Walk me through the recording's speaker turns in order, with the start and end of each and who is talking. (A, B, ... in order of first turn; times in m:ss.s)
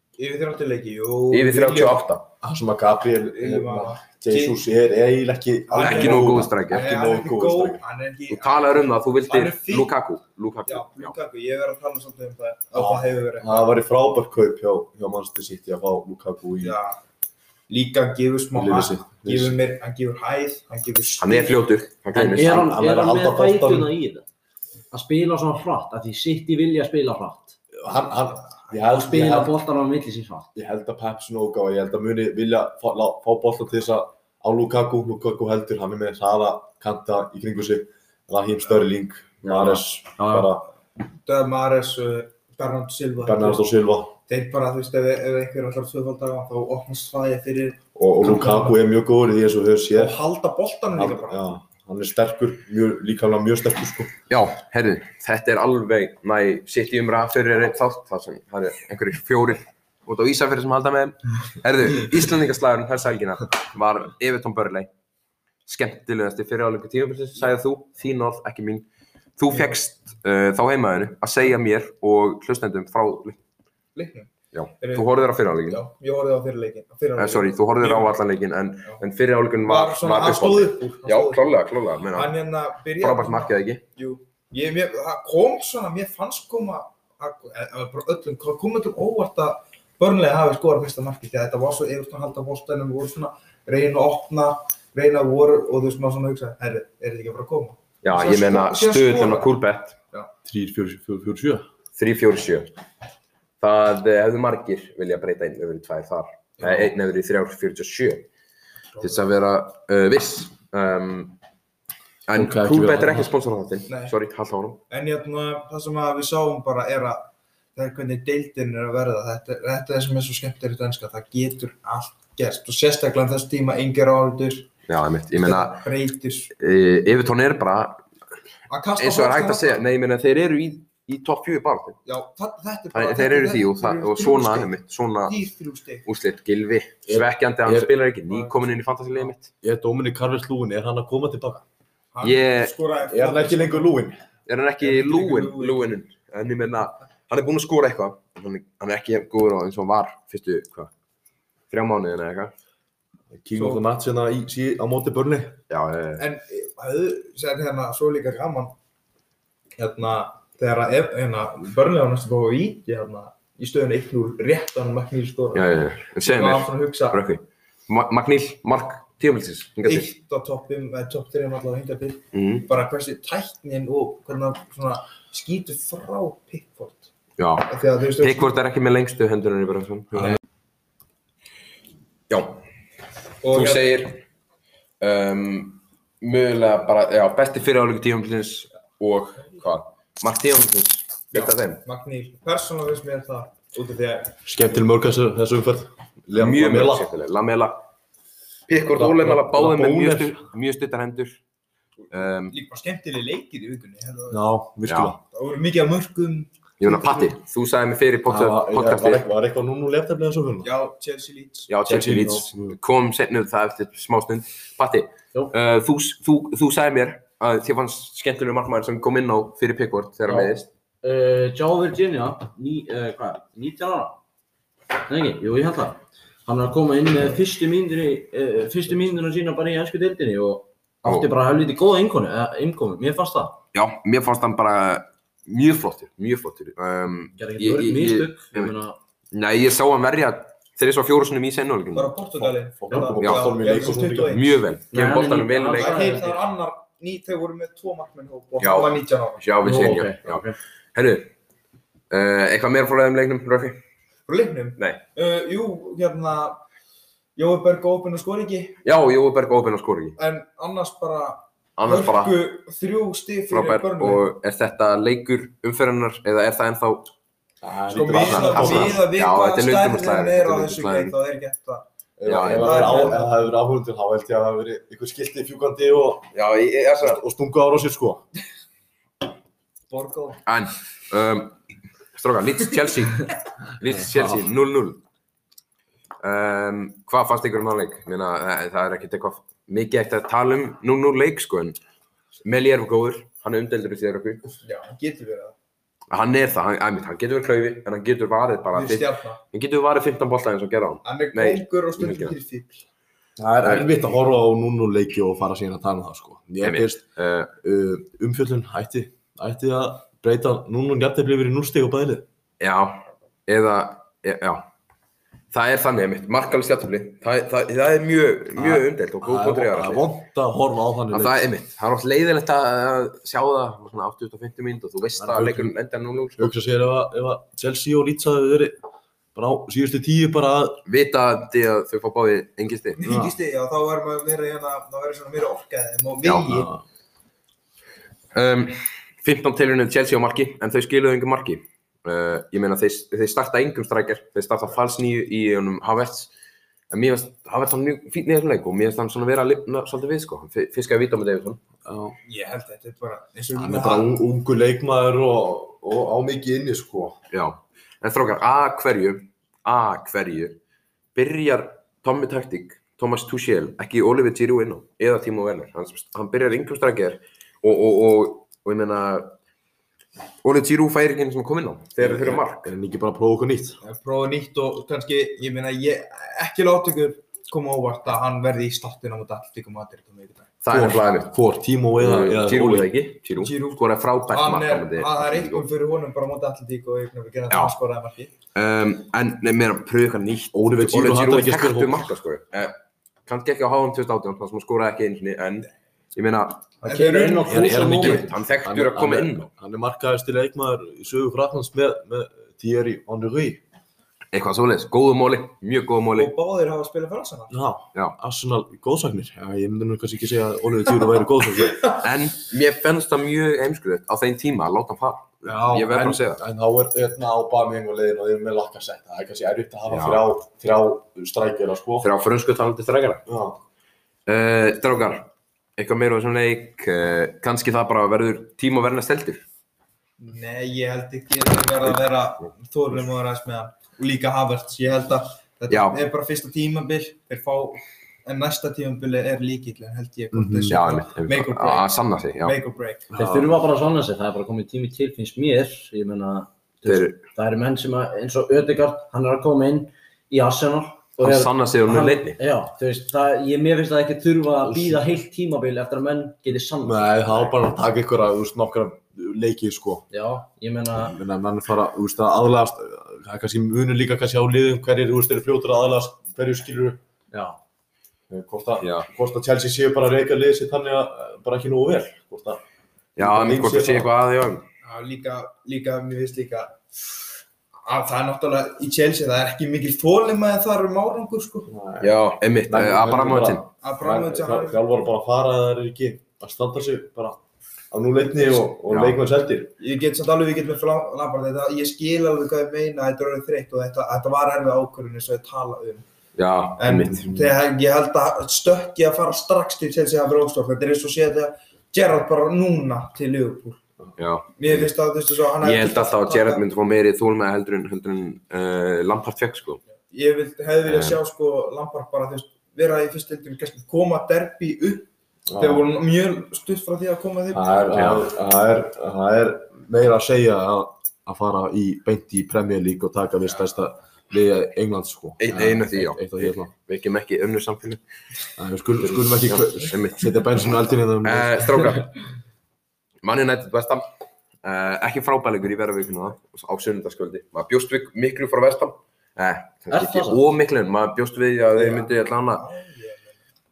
0:00.2-0:02.0 A
0:01.3-0:02.3 B
0:02.4-0:07.8 C
0:03.3-0:04.6 A
0:05.7-0:09.9 A
0:05.8-0:06.9 B
0:08.3-0:11.1 B
0:10.7-0:13.7 A
0:12.7-0:16.8 C
0:16.6-0:17.0 A
0:17.7-0:21.5 A
0:18.5-0:19.6 C
0:21.2-0:22.6 B
0:22.1-0:24.2 D
0:22.3-0:23.9 C
0:24.9-0:27.6 D
0:27.7-0:29.6 C
0:28.8-0:30.5 D
0:30.5-0:40.7 C
0:40.2-0:40.5 D
0:41.2-0:43.6 A
0:43.2-0:44.1 C
0:44.3-0:48.8 A
0:48.0-0:50.2 C
0:49.9-0:51.4 A
0:50.9-0:54.1 C
0:54.3-1:04.9 B
1:05.6-1:13.4 B
1:13.9-1:15.1 A
1:14.5-1:15.8 B
1:15.6-1:18.1 A
1:17.2-1:22.3 B
1:19.6-1:21.6 A
1:22.1-1:39.5 A
1:23.0-1:23.8 B
1:38.0-1:40.0 B
1:40.4-1:41.6 C
1:42.0-1:42.7 B
1:43.6-1:48.3 B
1:46.6-1:46.9 C
1:48.9-1:49.2 A
1:49.0-1:51.4 B
1:52.3-1:54.8 B
1:52.3-1:53.3 C
1:53.9-1:54.1 A
1:54.9-2:04.7 A
2:04.9-2:05.8 B
2:05.3-2:06.5 A
2:06.6-2:08.0 B
2:08.7-2:09.8 A
2:09.0-2:12.0 B
2:12.0-2:16.0 A
2:12.9-2:15.3 B
2:16.0-2:19.5 B
2:17.1-2:17.9 C
2:18.3-2:18.6 A
2:19.6-2:21.6 C
2:22.1-2:23.9 A
2:22.2-2:22.7 B
2:23.1-2:24.2 C
2:24.4-2:30.9 B
2:24.8-2:25.9 A
2:31.7-2:32.5 B
2:33.3-2:35.6 C
2:33.6-2:33.8 A
2:35.7-2:36.2 B
2:36.2-2:38.7 A
2:39.8-2:45.7 A
2:45.5-2:50.1 B
2:46.2-2:47.2 A
2:49.8-2:57.1 A
2:52.3-2:52.7 B
2:57.4-3:00.4 B
2:57.7-2:58.5 A
3:02.3-3:02.6 B
3:03.4-3:03.9 A
3:03.5-3:04.2 B
3:05.0-3:11.8 B
3:11.3-3:14.4 A
3:14.4-3:17.1 C
3:16.3-3:17.9 B
3:18.7-3:21.4 B
3:18.9-3:20.4 C
3:22.1-3:22.5 B
3:22.5-3:24.4 A
3:24.3-3:25.2 C
3:24.8-3:25.1 B
3:25.3-3:27.3 A
3:26.8-3:29.2 B
3:28.3-3:30.7 C
3:30.6-3:31.7 A
3:31.7-3:40.7 B
3:31.8-3:32.8 C
3:40.3-3:44.2 D
3:45.1-3:53.6 D
3:51.0-3:51.3 B
3:53.7-3:58.7 B
3:57.4-3:59.0 D
3:59.3-4:02.1 B
4:01.9-4:04.6 A
4:02.4-4:04.4 C
4:03.2-4:03.6 B
4:04.2-4:06.0 B
4:04.9-4:06.4 D
4:05.7-4:09.4 A
4:08.6-4:11.3 B
4:09.6-4:10.6 D
4:12.1-4:13.8 B
4:14.3-4:16.6 A
4:17.4-4:18.8 A
4:18.8-4:20.2 B
4:20.2-4:24.2 A
4:21.8-4:22.4 B
4:23.5-4:27.1 B
4:27.6-4:29.0 C
4:27.9-4:31.8 A
4:28.0-4:31.2 B
4:32.2-4:36.3 C
4:32.2-4:33.1 B
4:32.4-4:33.4 A
4:36.3-4:37.2 B
4:37.0-4:38.2 C
4:39.9-4:40.4 A
4:40.4-4:41.6 B
4:42.1-4:45.0 B
4:46.2-4:51.8 B
4:52.4-4:54.5 B
4:54.6-4:55.5 A
4:56.1-5:02.3 B
4:58.7-4:59.4 A
5:01.0-5:02.8 A
5:03.4-5:12.2 C
5:03.6-5:03.9 B
5:06.6-5:07.5 B
5:12.6-5:14.7 B
5:15.5-5:20.1 B
5:18.6-5:21.5 C
5:21.1-5:26.5 B
5:25.2-5:25.7 C
5:26.4-5:28.8 C
5:29.3-5:30.8 C
5:30.8-5:33.0 B
5:33.0-5:36.7 A
5:33.0-5:33.3 C
5:36.4-5:36.8 C
5:38.3-5:46.3 B
5:46.9-5:51.6 B
5:51.8-5:52.2 C
5:52.2-5:54.1 A
5:53.5-5:57.2 C
5:57.3-6:00.6 B
6:01.1-6:09.4 B
6:10.4-6:12.7 B
6:12.0-6:13.8 C
6:13.8-6:20.5 A
6:20.6-6:21.3 B
6:20.7-6:22.9 C
6:22.0-6:25.7 B
6:23.4-6:28.3 A
6:28.5-6:36.6 B
6:30.5-6:32.1 C
6:36.8-6:38.3 D
6:36.8-6:37.9 A
6:37.4-6:43.6 C
6:37.8-6:39.5 B
6:44.3-6:46.3 B
6:46.2-6:47.6 A
6:47.5-6:51.9 C
6:52.0-6:56.4 B
6:55.4-7:02.1 C
6:59.9-7:00.2 B
7:02.0-7:03.2 B
7:03.2-7:03.6 C
7:04.2-7:09.4 B
7:10.2-7:23.1 A
7:15.7-7:16.0 B
7:20.3-7:20.8 C
7:20.7-7:22.6 B
7:23.1-7:23.6 C
7:23.2-7:37.4 D
7:26.8-7:27.2 B
7:31.2-7:32.4 B
7:34.6-7:35.0 C
7:36.8-7:40.0 C
7:40.1-7:41.2 D
7:40.9-7:47.0 C
7:47.3-7:47.6 D
7:48.3-7:52.6 C
7:48.8-7:49.1 B
7:53.2-7:54.6 B
7:53.2-7:54.1 C
7:54.8-7:56.8 A
7:57.8-8:01.7 A
8:01.7-8:07.4 C
8:02.0-8:03.6 B
8:03.8-8:04.8 A
8:07.9-8:09.7 C
8:08.9-8:09.2 B
8:09.8-8:16.0 A
8:16.4-8:17.5 B
8:16.8-8:23.8 A
8:24.2-8:24.9 B
8:24.6-8:26.6 A
8:25.6-8:29.8 B
8:30.1-8:37.8 A
8:30.8-8:31.2 B
8:35.5-8:35.8 C
8:37.5-8:46.7 C
8:37.9-8:38.3 B
8:45.4-8:48.0 B
8:48.6-8:51.9 C
8:49.0-8:50.4 B
8:51.2-8:52.1 B
8:53.2-8:54.1 B
8:54.6-9:02.6 B
8:59.9-9:00.4 D
9:01.7-9:03.4 A